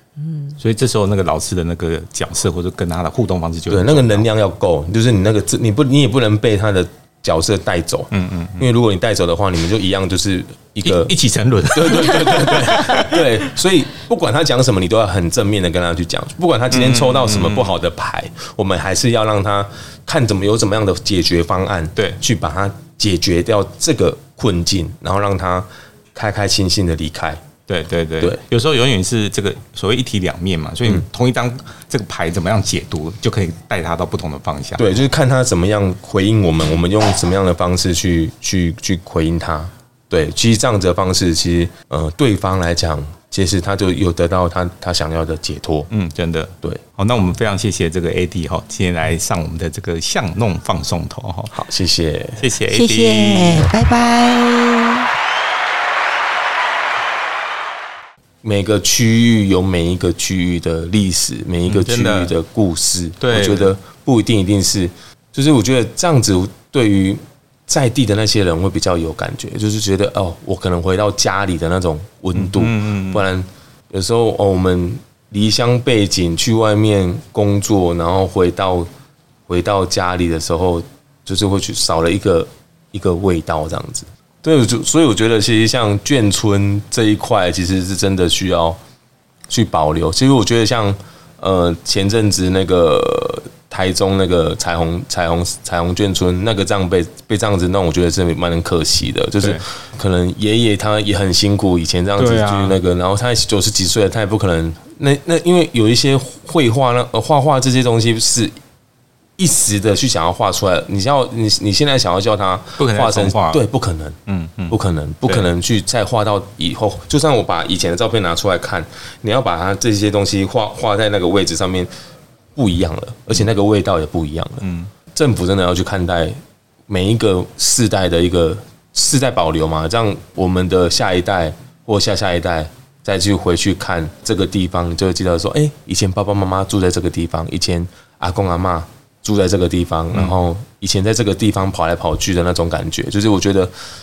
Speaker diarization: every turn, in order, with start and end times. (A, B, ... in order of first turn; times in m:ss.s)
0:00.6-0:04.3 A
0:03.7-0:11.1 B
0:08.1-0:08.7 A
0:10.8-0:13.3 A
0:11.7-0:27.4 B
0:16.7-0:17.8 A
0:27.7-0:34.8 A
0:34.8-0:45.9 B
0:45.9-0:51.5 A
0:51.5-0:52.4 B
0:52.4-0:53.7 A
0:52.7-0:55.1 C
0:58.4-1:18.9 B
1:01.7-1:02.3 A
1:03.2-1:03.7 A
1:12.4-1:13.2 A
1:19.5-1:28.8 B
1:29.5-1:48.6 B
1:42.2-1:42.8 A
1:49.4-1:54.2 B
1:52.8-1:53.6 A
1:54.3-1:55.5 A
1:54.7-2:01.9 B
2:02.6-2:06.4 B
2:04.6-2:04.9 A
2:06.9-2:23.7 B